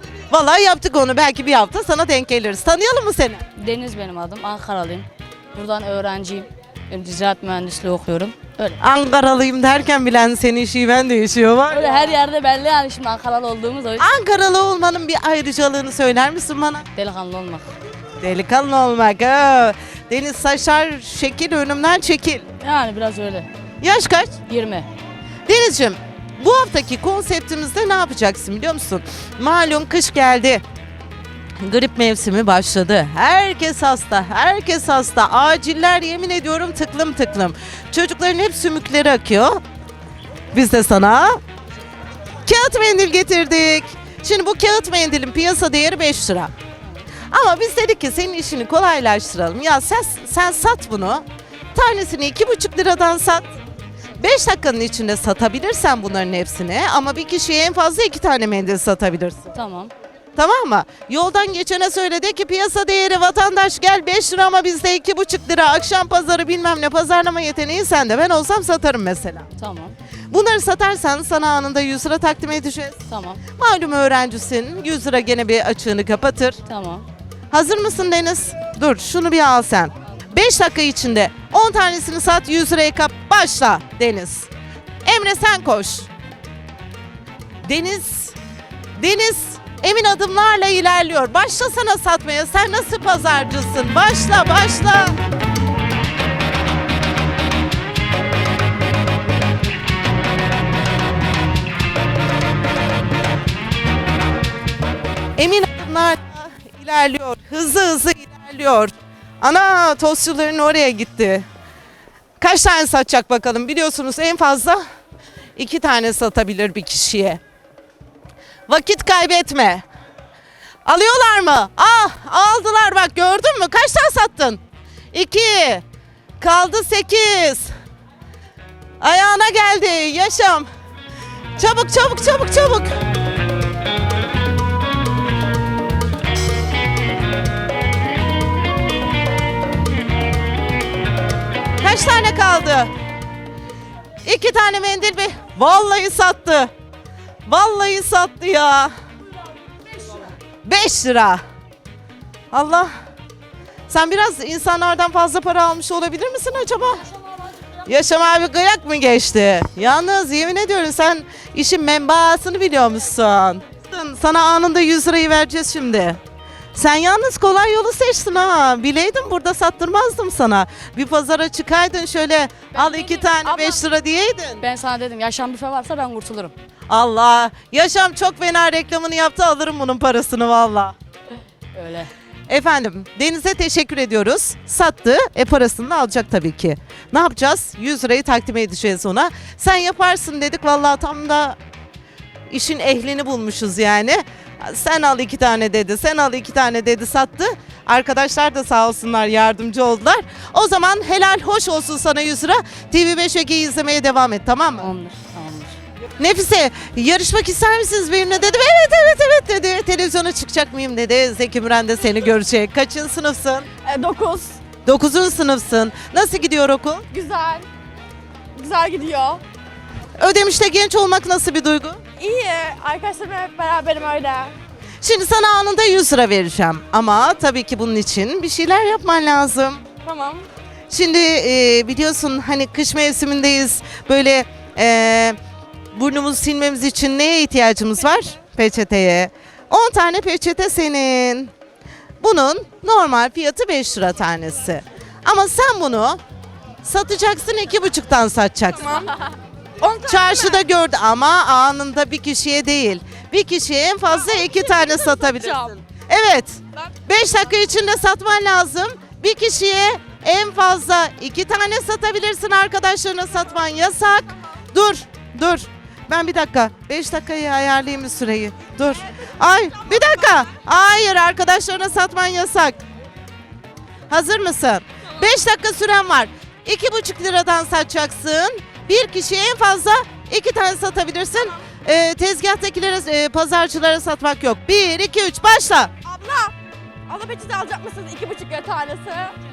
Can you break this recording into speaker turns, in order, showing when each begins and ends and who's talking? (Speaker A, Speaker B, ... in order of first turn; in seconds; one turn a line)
Speaker A: 0.3-3.4
Speaker B: 3.6-8.8
Speaker A: 8.8-12.0
Speaker B: 11.7-14.1
Speaker A: 14.0-16.9
Speaker B: 16.9-17.7
Speaker A: 18.2-22.4
Speaker B: 22.6-23.5
Speaker A: 23.8-24.4
Speaker B: 24.5-24.9
Speaker A: 25.5-30.6
Speaker A: 31.6-39.6
Speaker A: 40.5-41.4
Speaker A: 42.4-46.5
Speaker A: 47.3-53.5
Speaker A: 54.2-59.5
Speaker B: 59.5-59.9
Speaker A: 60.4-69.5
Speaker B: 69.5-69.9
Speaker A: 70.3-73.0
Speaker B: 73.1-73.4
Speaker A: 73.5-76.6
Speaker B: 76.7-77.1
Speaker A: 77.5-84.5
Speaker A: 85.0-86.1
Speaker A: 87.6-88.3
Speaker A: 89.0-95.2
Speaker A: 105.4-111.4
Speaker A: 112.4-114.8
Speaker A: 115.6-117.4
Speaker A: 118.7-119.8
Speaker A: 120.8-124.6
Speaker A: 125.1-125.8
Speaker A: 126.4-127.7
Speaker A: 129.0-130.7
Speaker A: 131.6-132.9
Speaker A: 141.8-142.9
Speaker A: 144.2-146.7
Speaker A: 147.4-148.9
Speaker A: 150.6-151.4
Speaker A: 152.5-152.9
Speaker A: 153.9-157.1
Speaker A: 157.8-166.2
Speaker A: 166.7-174.7
Speaker C: 172.7-173.8
Speaker B: 174.6-176.5
Speaker A: 176.9-180.9
Speaker B: 181.7-182.1
Speaker A: 182.5-191.6
Speaker A: 192.5-204.9
Speaker B: 204.8-205.8
Speaker A: 206.2-213.7
Speaker C: 213.8-214.6
Speaker A: 214.8-217.0
Speaker C: 217.1-217.7
Speaker C: 218.6-219.4
Speaker A: 220.2-222.0
Speaker C: 222.2-224.5
Speaker A: 225.0-229.8
Speaker C: 230.0-230.4
Speaker A: 230.9-235.4
Speaker A: 235.9-241.5
Speaker A: 242.2-246.2
Speaker A: 246.8-249.1
Speaker C: 248.8-250.6
Speaker A: 250.0-272.8
Speaker C: 254.1-255.7
Speaker A: 274.1-285.9
Speaker C: 286.0-286.5
Speaker C: 287.1-289.3